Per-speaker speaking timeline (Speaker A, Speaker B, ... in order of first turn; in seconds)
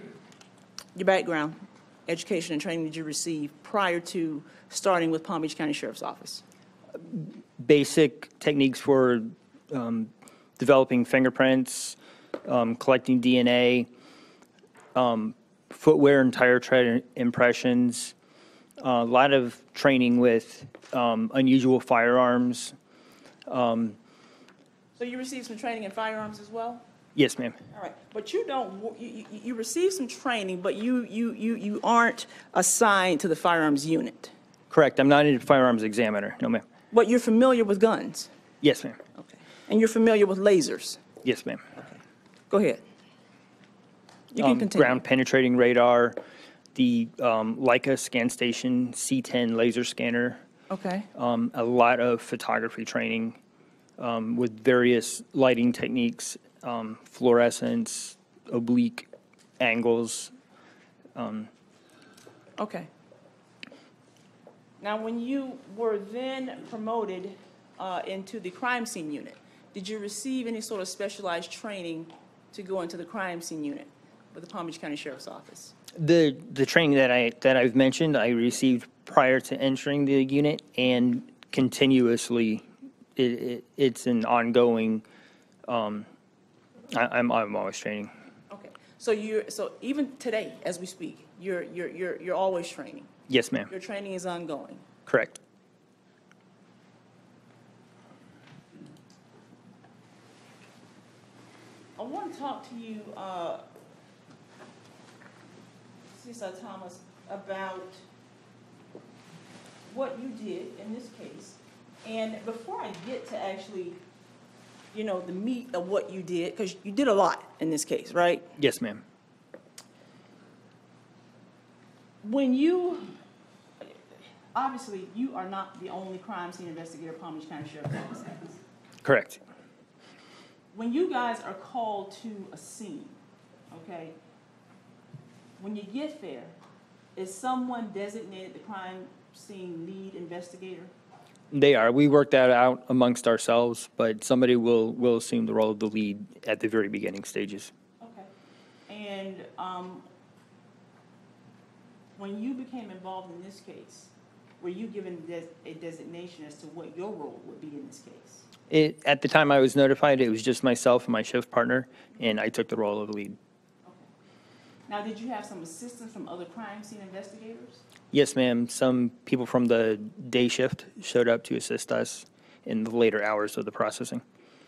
Speaker A: 0.9-6.4, 24.9-26.8, 27.7-34.3, 36.9-38.3, 39.2-41.0, 42.5-42.8, 44.3-45.0, 50.7-51.1, 62.6-62.9, 64.8-75.7, 88.5-93.1, 93.7-94.8, 102.0-103.6, 106.1-108.0, 109.9-114.0, 114.9-118.5, 122.2-123.1, 124.5-128.6, 130.7-133.2, 133.7-134.2, 135.6-136.6, 137.1-140.9, 148.0-148.3, 148.9-150.1, 152.2-158.4, 164.9-167.8
Speaker B: 7.0-13.9, 14.9-18.1, 18.8-22.8, 23.4-24.0, 27.1-27.6, 34.7-36.6, 38.6-39.0, 41.2-41.7, 44.4-46.2, 46.8-50.4, 51.1-53.4, 54.0-59.1, 59.6-60.3, 61.1-61.5, 76.0-85.0, 85.7-86.1, 86.9-88.1, 93.3-93.7, 95.0-95.4, 118.6-119.0, 129.0-129.4, 141.5-147.7, 158.7-163.4, 168.1-174.2